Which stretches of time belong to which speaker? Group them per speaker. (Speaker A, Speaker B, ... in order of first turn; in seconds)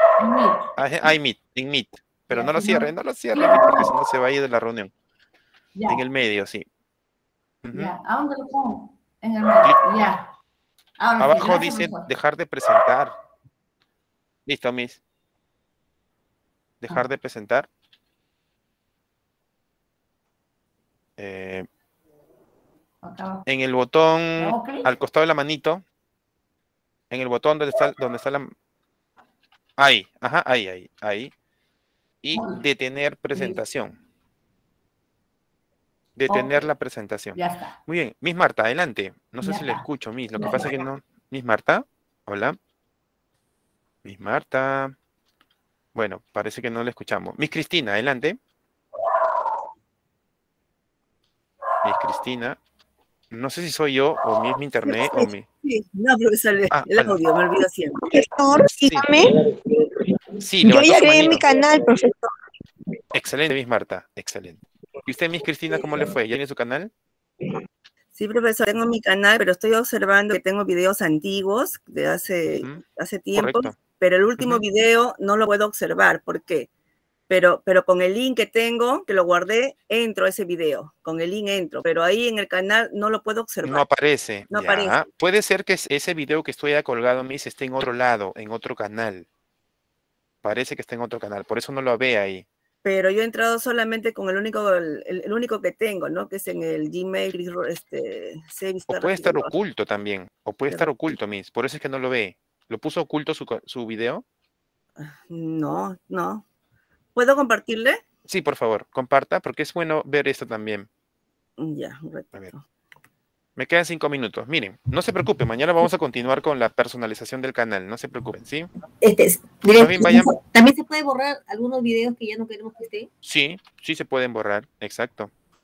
Speaker A: 0.2-0.7, 2.3-3.9, 5.8-6.0, 7.7-10.3, 11.0-12.1, 23.0-23.4, 24.4-24.9, 32.3-32.6, 33.3-33.6, 36.3-36.7, 37.4-37.8, 39.4-40.9
Speaker B: 0.8-4.9, 5.9-6.7, 7.6-8.0, 11.2-13.2, 14.5-15.0, 16.8-17.7, 21.2-21.7, 23.5-25.8, 27.1-28.5, 29.8-31.3, 32.2-34.0, 36.2-42.6, 44.0-45.0, 46.0-48.4, 51.8-52.6, 53.3-55.5, 56.7-57.2, 60.4-61.5, 63.1-66.9, 73.3-73.8, 83.7-89.3, 90.4-92.5, 98.9-104.2, 108.3-110.9, 113.6-118.7, 119.8-120.3, 123.2-125.3
Speaker C: 54.9-58.0, 68.2-76.7, 77.3-83.9, 84.5-85.1, 92.8-99.5, 105.0-106.4, 107.2-108.0, 111.6-112.6
Speaker D: 58.2-59.2, 60.7-62.1
Speaker E: 119.0-123.1